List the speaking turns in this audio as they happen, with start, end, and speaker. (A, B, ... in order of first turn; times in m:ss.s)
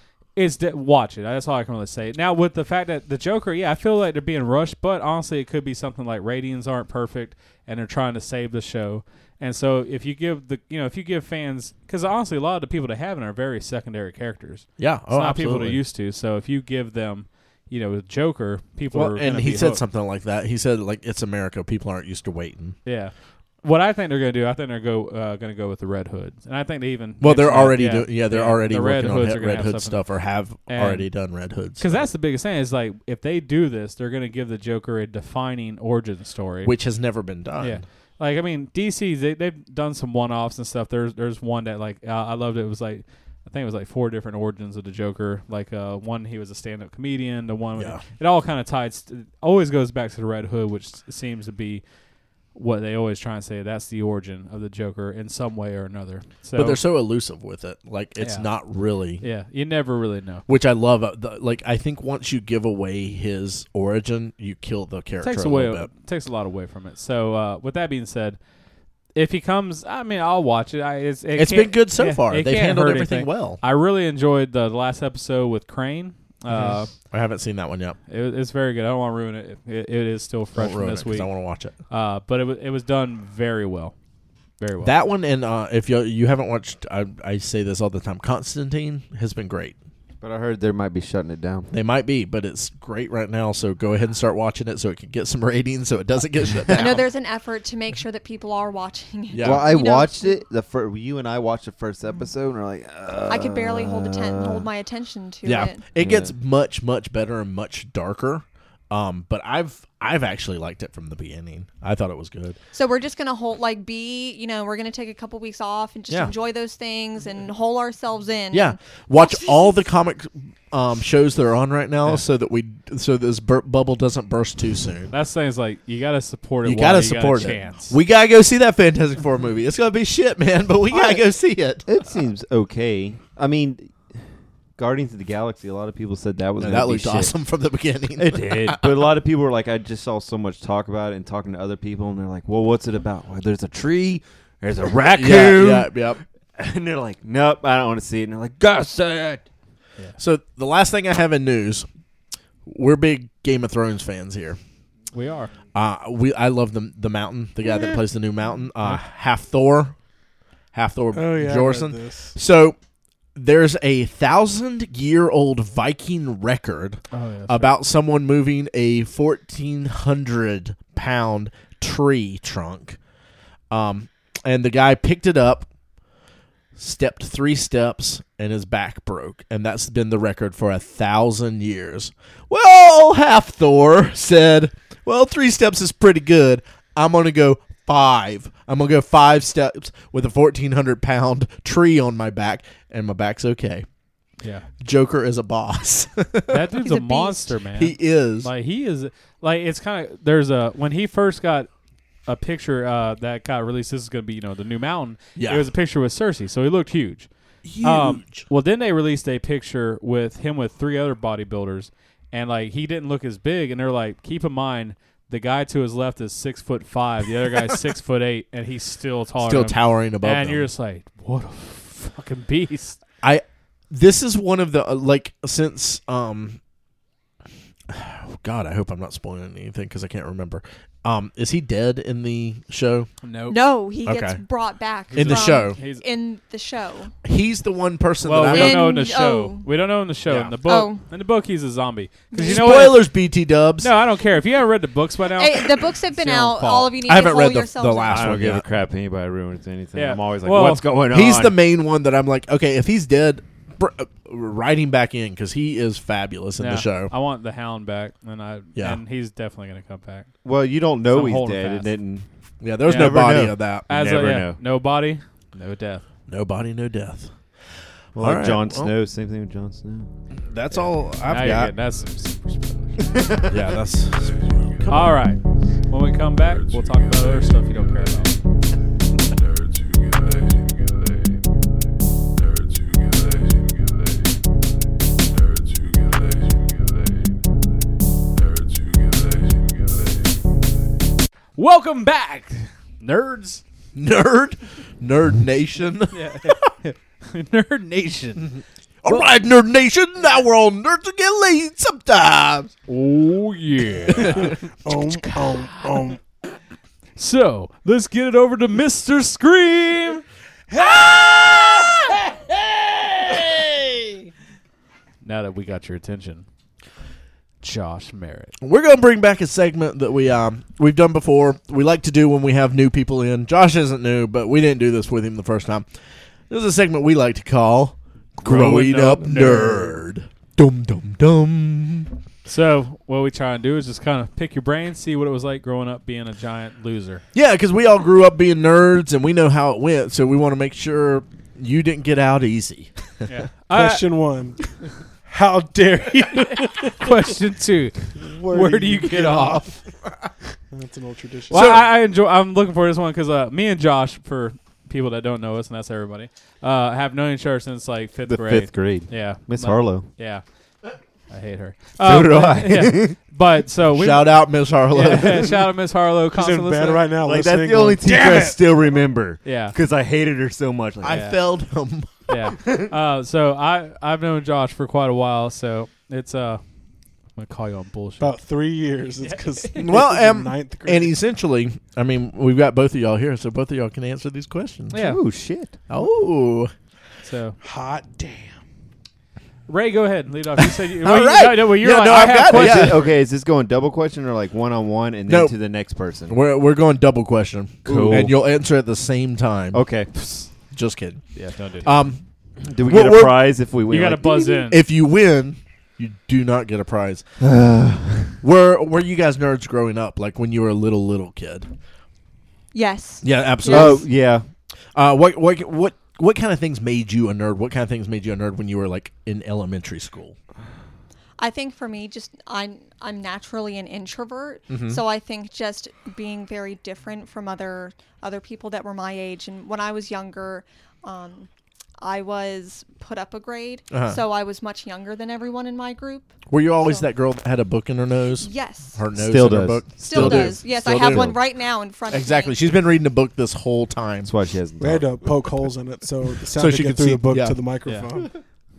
0:00.4-0:19.8 A
0:14.8-0:15.8 B
0:18.9-0:22.8 B
0:22.8-0:30.0 A
0:27.2-0:32.1 B
0:30.7-0:31.1 A
0:31.8-0:36.7 A
0:36.6-0:37.8 B
0:37.6-0:51.8 A
0:47.8-0:48.0 B
0:52.5-0:56.8 A
0:56.6-0:59.2 B
0:58.2-0:58.5 A
0:59.2-1:00.4 A
1:00.5-1:05.9 B
1:05.2-1:08.4 A
1:09.1-1:16.9 A
1:11.4-1:13.6 B
1:16.5-1:18.0 B
1:18.1-1:21.3 A
1:20.6-1:21.8 B
1:21.9-1:23.9 A
1:24.6-1:24.9 A
1:24.8-1:29.8 B
1:30.2-1:31.7 C
1:31.7-1:37.0 B
1:36.7-1:36.9 C
1:36.7-1:40.4 D
1:39.3-1:39.7 B
1:39.4-1:44.6 C
1:43.3-1:45.8 D
1:45.4-1:52.6 B
1:46.0-1:46.3 C
1:52.7-1:59.8 D
1:58.5-2:05.1 B
2:05.1-2:08.0 A
2:06.6-2:11.9 B
2:10.9-2:11.2 C
2:11.8-2:13.9 C
2:14.8-2:17.3 C
2:16.6-2:19.0 B
2:18.2-2:29.4 C
2:25.1-2:26.2 B
2:30.2-2:31.9 B
2:32.7-2:34.6 B
2:35.1-2:35.5 A
2:35.8-2:40.0 B
2:40.7-2:42.8 B
2:41.1-2:42.3 E
2:43.4-2:53.0 B
2:47.1-2:47.7 A
2:53.7-2:55.7 B
2:56.8-3:13.9 B
3:14.8-3:16.6 B
3:16.5-3:21.7 A
3:16.8-3:17.5 D
3:17.8-3:18.5 B
3:22.3-3:27.3 A
3:25.4-3:25.7 B
3:27.6-3:28.5 B
3:27.8-3:43.0 A
3:39.4-3:40.7 B
3:43.2-3:46.6 B
3:47.9-3:53.1 B
3:53.2-3:53.6 A
3:53.5-3:57.1 D
3:54.1-3:54.4 B
3:55.1-3:56.1 A
3:55.1-3:55.8 B
3:57.2-3:58.9 B
3:58.2-4:03.0 A
3:58.5-3:59.7 D
4:00.3-4:00.5 C
4:00.6-4:01.0 D
4:02.3-4:03.0 D
4:02.4-4:03.9 B
4:03.8-4:07.0 A
4:05.4-4:08.4 D
4:07.0-4:08.6 B
4:08.1-4:11.6 C
4:10.0-4:10.8 A
4:11.1-4:17.1 B
4:16.6-4:20.3 A
4:20.4-4:22.3 C
4:21.1-4:21.9 A
4:22.6-4:23.9 B
4:22.8-4:24.6 C
4:23.9-4:26.0 A
4:26.3-4:28.9 B
4:28.1-4:30.1 C
4:30.5-4:31.7 B
4:31.2-4:33.2 A
4:33.0-4:33.6 C
4:33.5-4:35.2 B
4:34.9-4:38.4 A
4:51.6-4:53.6 A
4:54.0-4:56.7 B
4:56.1-4:58.5 A
4:58.4-5:02.7 B
5:02.9-5:05.9 A
5:04.2-5:04.5 B
5:04.8-5:06.2 E
5:07.2-5:12.2 A
5:15.2-5:16.5 A
5:17.6-5:18.5 A
5:18.6-5:25.9 B
5:26.5-5:32.1 B
5:28.4-5:29.9 A
5:28.5-5:29.4 C
5:32.5-5:37.2 A
5:37.3-5:43.1 B
5:43.3-5:44.1 A
5:43.7-5:47.1 E
5:47.0-5:49.8 A
5:48.2-5:49.8 E
5:50.7-5:51.7 E
5:51.5-5:51.9 B
5:51.5-6:00.4 A
5:58.3-6:00.1 C
6:01.3-6:07.1 A
6:02.0-6:03.2 C
6:04.0-6:05.5 B
6:06.3-6:08.6 E
6:07.2-6:11.3 C
6:09.4-6:09.8 A
6:11.0-6:12.1 B
6:11.1-6:11.4 A
6:12.3-6:16.6 A
6:12.5-6:12.8 C
6:17.4-6:18.4 A
6:18.2-6:21.1 E
6:19.2-6:19.8 A
6:19.8-6:25.0 B
6:24.9-6:25.2 A
6:25.0-6:25.8 C
6:25.9-6:26.7 B
6:27.2-6:27.6 A
6:27.6-6:28.6 E
6:29.7-6:33.1 A
6:30.6-6:33.1 B
6:32.3-6:36.4 C
6:35.3-6:35.6 B
6:36.3-6:39.8 B
6:37.8-6:38.4 C
6:39.7-6:40.1 C
6:40.7-6:41.3 B
6:41.4-6:41.9 A
6:41.8-6:42.2 B
6:42.7-6:44.7 C
6:42.8-6:43.4 B
6:43.9-6:44.8 A
6:44.7-6:47.2 B
6:47.4-6:48.4 C
6:48.4-6:51.7 B
6:52.7-6:54.0 D
6:53.2-6:54.1 B
6:53.6-6:54.5 C
6:55.0-7:00.4 B
7:01.4-7:11.5 D
7:04.7-7:05.0 B
7:12.0-7:16.3 D
7:13.9-7:14.2 B
7:16.5-7:21.4 B
7:18.4-7:19.0 D
7:19.1-7:21.4 C
7:20.0-7:22.6 D
7:22.1-7:24.3 B
7:24.2-7:25.2 C
7:24.8-7:28.4 E
7:26.5-7:27.6 B